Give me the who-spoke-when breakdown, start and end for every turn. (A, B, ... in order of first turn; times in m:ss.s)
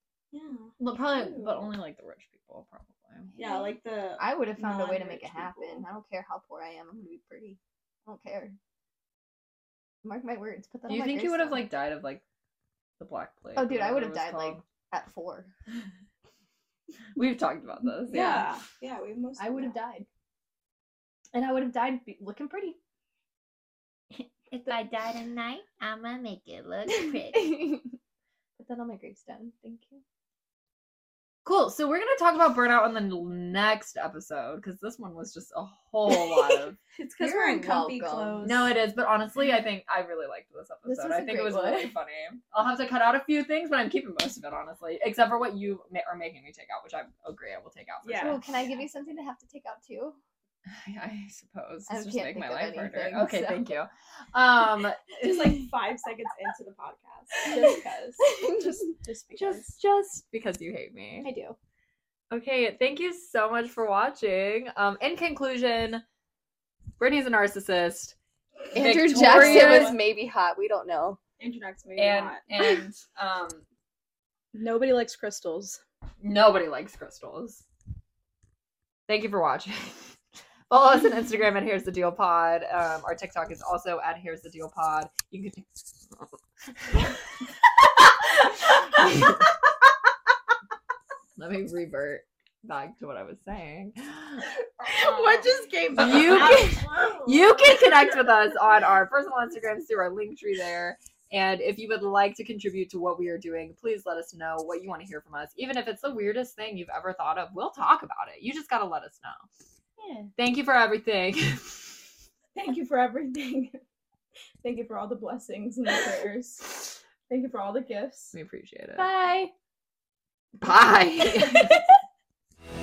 0:00.3-0:01.6 A
0:00.8-0:03.3 B
0:03.3-0:08.6 C
0:03.4-0:05.8 A
0:10.0-0:11.6 C
0:10.9-0:12.2 B
0:13.0-0:14.6 B
0:13.6-0:15.5 C
0:17.1-0:18.5 B
0:18.1-0:19.8 A
0:19.4-0:20.1 C
0:21.3-0:22.8 C
0:24.5-0:27.4 D
0:24.7-0:25.1 B
0:27.2-0:28.0 C
0:28.6-0:30.0 C
0:31.4-0:36.8 B
0:36.9-0:38.7 A
0:37.2-0:38.4 C
0:38.4-0:48.5 B
0:40.8-0:41.9 C
0:48.0-0:48.4 A
0:48.2-0:50.2 C
0:50.6-0:55.1 B
0:51.9-0:53.7 C
0:55.1-0:59.8 A
0:57.4-0:59.7 C
0:59.4-1:01.3 B
1:01.2-1:01.6 C
1:02.3-1:06.0 B
1:07.0-1:08.2 B
1:08.7-1:11.2 C
1:08.7-1:10.0 B
1:09.1-1:10.0 A
1:11.4-1:12.4 A
1:12.0-1:13.6 B
1:14.5-1:15.8 A
1:16.2-1:17.6 B
1:19.1-1:20.2 B
1:20.7-1:27.2 B
1:28.6-1:29.4 B
1:31.4-1:34.4 B
1:34.8-1:37.2 C
1:35.3-1:37.2 A
1:36.0-1:49.4 B
1:50.0-1:50.3 C
1:50.4-1:52.0 B
1:52.5-1:53.8 A
1:54.6-1:58.4 A
1:58.3-1:59.1 B
1:59.0-1:59.5 C
2:00.6-2:01.8 B